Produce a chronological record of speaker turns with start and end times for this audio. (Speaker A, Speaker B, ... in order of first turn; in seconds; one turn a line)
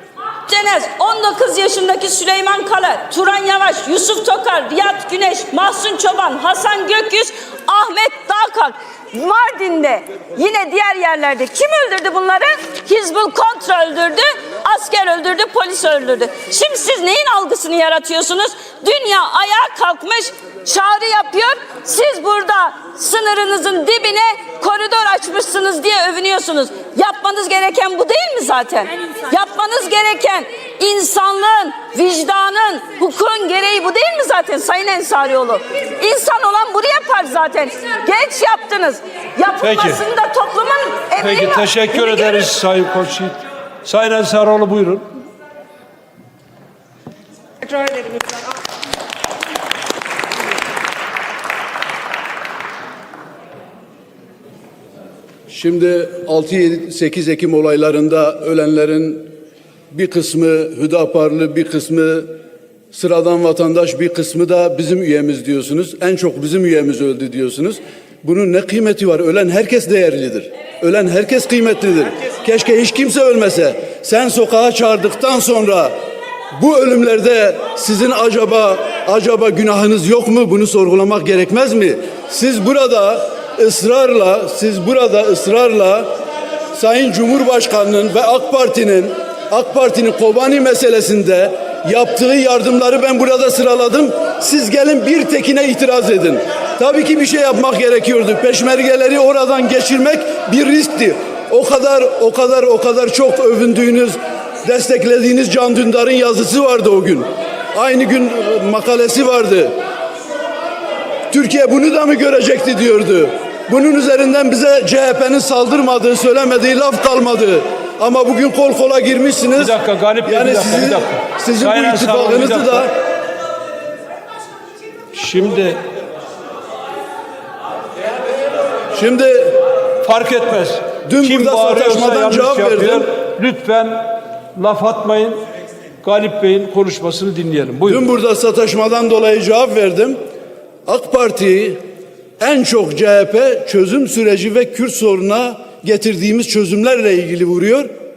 Speaker A: 0.5-42.5
Speaker B: 39.6-40.0
Speaker B: 41.2-45.1
Speaker C: 55.5-59.3
Speaker C: 59.9-62.4
Speaker C: 62.9-76.0
Speaker C: 76.5-86.1
Speaker C: 86.7-109.8
Speaker C: 111.3-122.9
Speaker B: 119.6-122.9
Speaker B: 125.1-125.8
Speaker C: 128.9-129.7
Speaker B: 130.0-135.4
Speaker C: 131.1-133.1
Speaker B: 136.0-138.1
Speaker C: 137.9-140.2
Speaker C: 140.9-141.8
Speaker C: 142.4-147.9